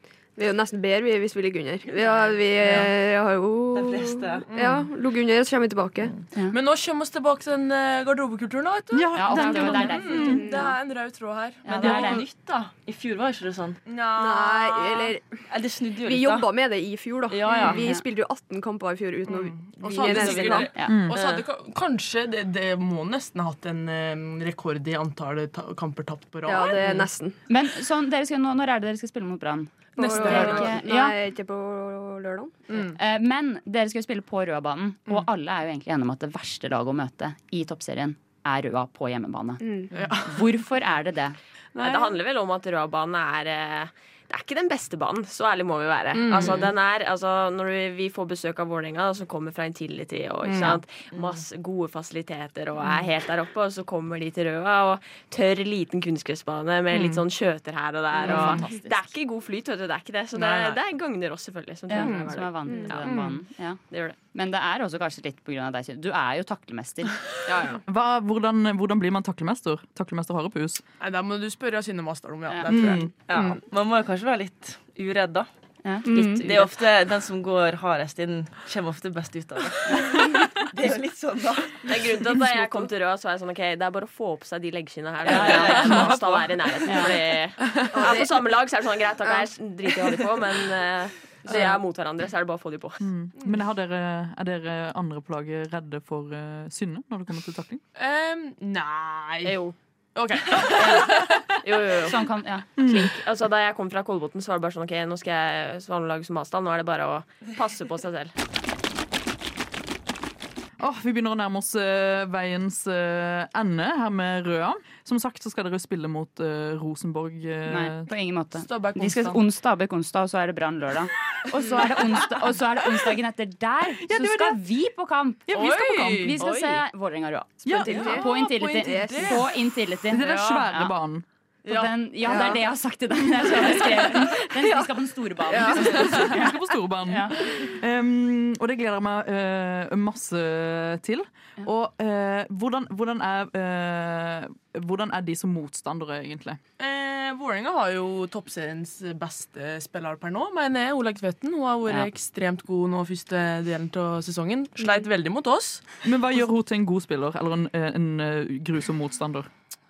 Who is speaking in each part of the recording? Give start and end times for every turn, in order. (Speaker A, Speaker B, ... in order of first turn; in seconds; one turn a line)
Speaker A: 0.4-6.1
Speaker B: 3.7-4.5
Speaker C: 4.5-4.8
Speaker C: 6.5-12.2
Speaker D: 8.9-10.5
Speaker E: 9.1-10.7
Speaker A: 10.4-10.7
Speaker E: 11.6-12.2
Speaker B: 11.7-13.8
Speaker D: 11.9-12.1
Speaker C: 13.8-15.1
Speaker A: 14.2-15.4
Speaker B: 15.5-16.5
Speaker A: 16.0-20.7
Speaker B: 17.3-17.9
Speaker E: 17.7-18.0
Speaker C: 19.3-27.0
Speaker B: 19.9-21.4
Speaker D: 20.9-21.2
Speaker A: 26.4-27.4
Speaker E: 27.5-31.1
Speaker C: 30.0-30.8
Speaker A: 30.0-32.6
Speaker C: 32.7-33.0
Speaker E: 33.0-41.4
Speaker A: 39.6-39.9
Speaker C: 39.9-40.5
Speaker F: 41.8-63.2
Speaker C: 41.8-42.1
Speaker C: 46.1-46.7
Speaker C: 50.4-50.8
Speaker C: 56.9-57.2
Speaker C: 58.2-58.7
Speaker E: 58.3-58.7
Speaker C: 60.3-60.8
Speaker E: 61.9-63.8
Speaker C: 61.9-62.4
Speaker A: 62.7-62.9
Speaker C: 63.0-63.3
Speaker F: 63.9-64.2
Speaker E: 64.3-67.2
Speaker C: 67.5-67.8
Speaker D: 67.9-70.8
Speaker C: 71.0-73.6
Speaker D: 72.7-73.1
Speaker B: 73.1-75.5
Speaker E: 75.8-76.6
Speaker A: 76.0-76.5
Speaker B: 76.2-82.1
Speaker F: 81.8-93.1
Speaker B: 85.2-86.4
Speaker E: 85.3-86.1
Speaker E: 86.8-87.2
Speaker C: 87.6-88.0
Speaker A: 87.9-88.4
Speaker A: 89.2-89.5
Speaker C: 91.5-91.8
Speaker D: 93.0-97.8
Speaker C: 98.0-99.6
Speaker F: 99.4-99.8
Speaker C: 100.1-101.6
Speaker E: 100.8-101.2
Speaker F: 101.6-108.3
Speaker E: 102.0-102.7
Speaker D: 102.8-103.1
Speaker D: 110.8-118.1
Speaker E: 117.7-125.5
Speaker C: 118.6-119.4
Speaker D: 124.0-124.6
Speaker D: 125.5-126.4
Speaker C: 125.5-126.4
Speaker E: 126.2-130.9
Speaker F: 126.4-126.7
Speaker D: 127.6-128.2
Speaker A: 127.7-129.5
Speaker C: 127.9-129.5
Speaker D: 130.1-131.2
Speaker E: 131.6-137.4
Speaker C: 131.7-131.9
Speaker A: 132.2-132.6
Speaker A: 135.5-136.0
Speaker D: 135.6-146.6
Speaker C: 146.8-155.8
Speaker D: 156.0-159.5